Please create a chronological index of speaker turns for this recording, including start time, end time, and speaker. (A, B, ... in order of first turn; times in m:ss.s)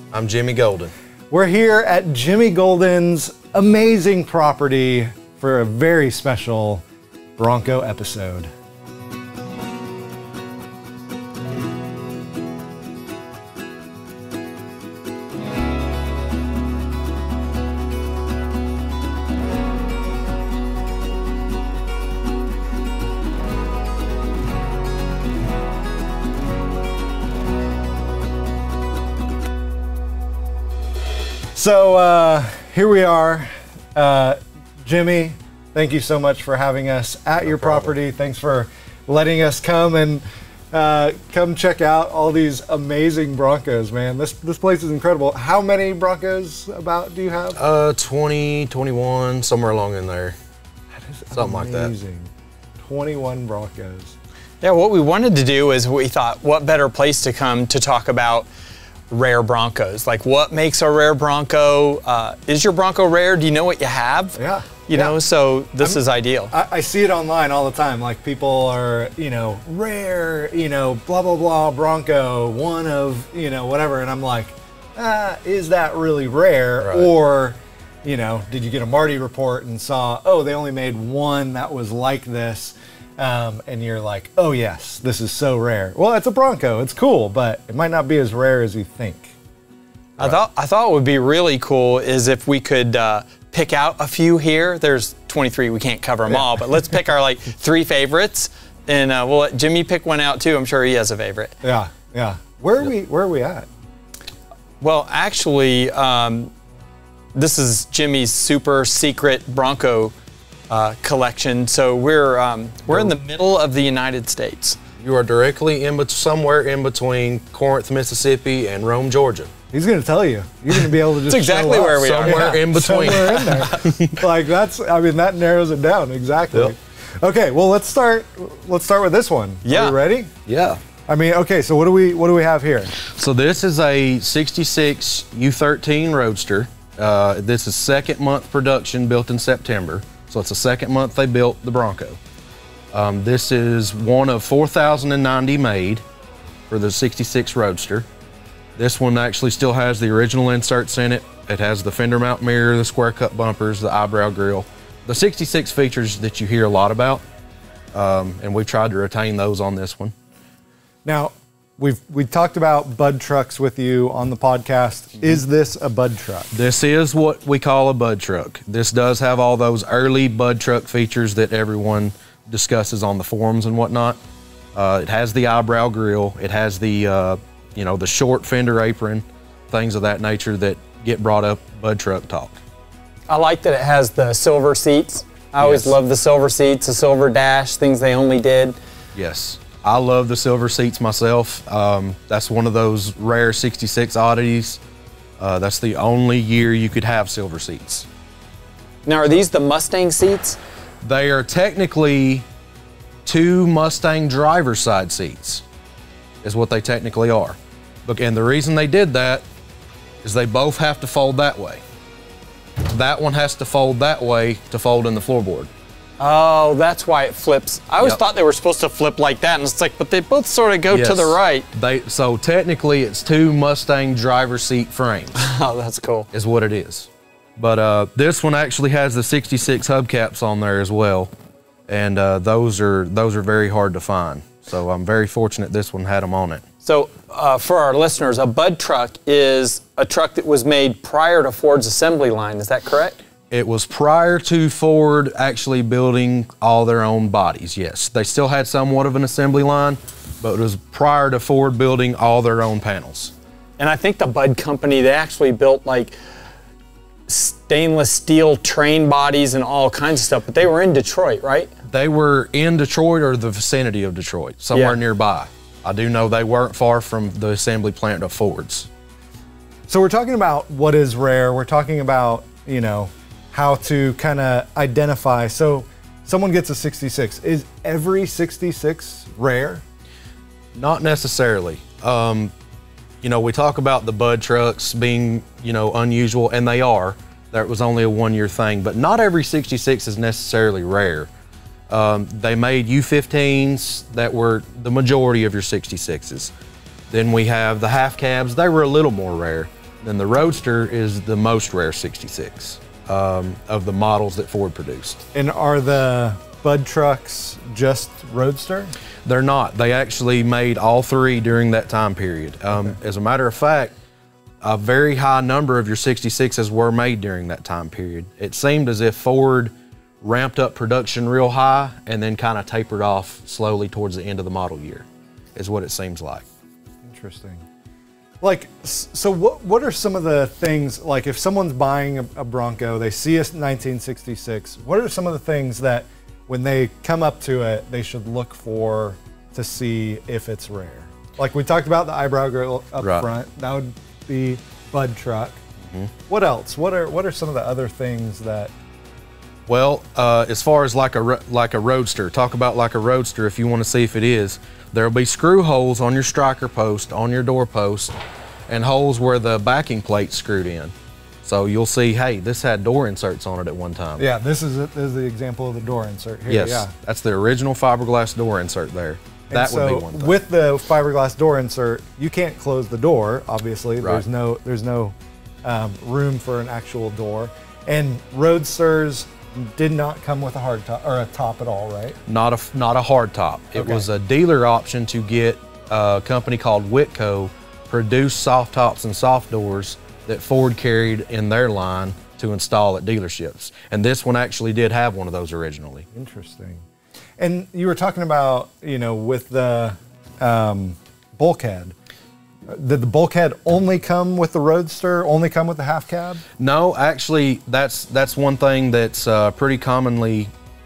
0:00.1-0:00.9 A
0:01.3-0:06.8 B
0:07.4-0:08.5 B
0:31.6-0:47.6 B
0:37.4-0:37.9 A
0:47.6-0:50.4 A
0:50.9-0:54.1 B
0:51.3-0:51.9 A
0:54.6-0:58.5 C
0:59.1-1:04.4 C
1:04.4-1:05.2 B
1:04.9-1:06.5 C
1:06.5-1:29.3 B
1:16.8-1:17.1 A
1:30.2-1:41.6 C
1:41.6-1:43.7 B
1:44.8-1:46.5 C
1:47.4-1:50.1 C
1:50.7-1:54.8 C
1:55.0-1:59.5 A
1:59.7-2:10.3 B
2:01.3-2:03.5 C
2:02.0-2:04.3 A
2:09.6-2:10.0 C
2:10.5-2:10.8 A
2:11.1-2:13.0 B
2:13.0-2:22.2 A
2:22.9-2:26.0 A
2:26.7-2:28.1 A
2:28.8-2:37.2 A
2:37.9-2:40.2 A
2:41.0-2:46.5 B
2:46.5-2:54.2 A
2:54.8-3:02.6 A
3:03.3-3:08.8 C
3:05.6-3:06.0 A
3:09.2-3:14.8 A
3:15.4-3:18.1 A
3:19.1-3:20.6 C
3:21.0-3:22.5 A
3:23.2-3:25.6 A
3:26.4-3:29.4 A
3:30.2-3:31.8 A
3:32.9-3:35.7 A
3:36.2-3:41.7 C
3:40.9-3:45.4 A
3:45.4-3:46.3 C
3:46.3-3:51.3 A
3:51.9-3:56.6 A
3:56.8-4:03.2 C
4:03.5-4:13.3 A
4:13.8-4:16.2 C
4:17.3-4:21.7 C
4:21.9-4:28.9 A
4:29.9-4:39.8 B
4:40.8-4:42.5 A
4:43.2-4:51.3 A
4:51.9-4:56.5 A
4:57.1-5:05.2 A
5:05.3-5:08.9 B
5:09.2-5:13.9 A
5:14.6-5:26.4 A
5:27.0-5:27.6 B
5:28.4-5:45.6 B
5:43.0-5:43.3 A
5:45.8-5:46.1 A
5:46.3-5:48.7 B
5:49.7-5:58.2 A
5:58.7-6:04.3 A
6:04.2-6:06.9 B
6:06.5-6:10.4 A
6:09.5-6:22.2 B
6:22.3-6:36.1 A
6:23.8-6:24.1 B
6:36.1-6:36.8 B
6:37.4-6:42.0 B
6:42.7-6:46.4 B
6:46.6-6:50.5 A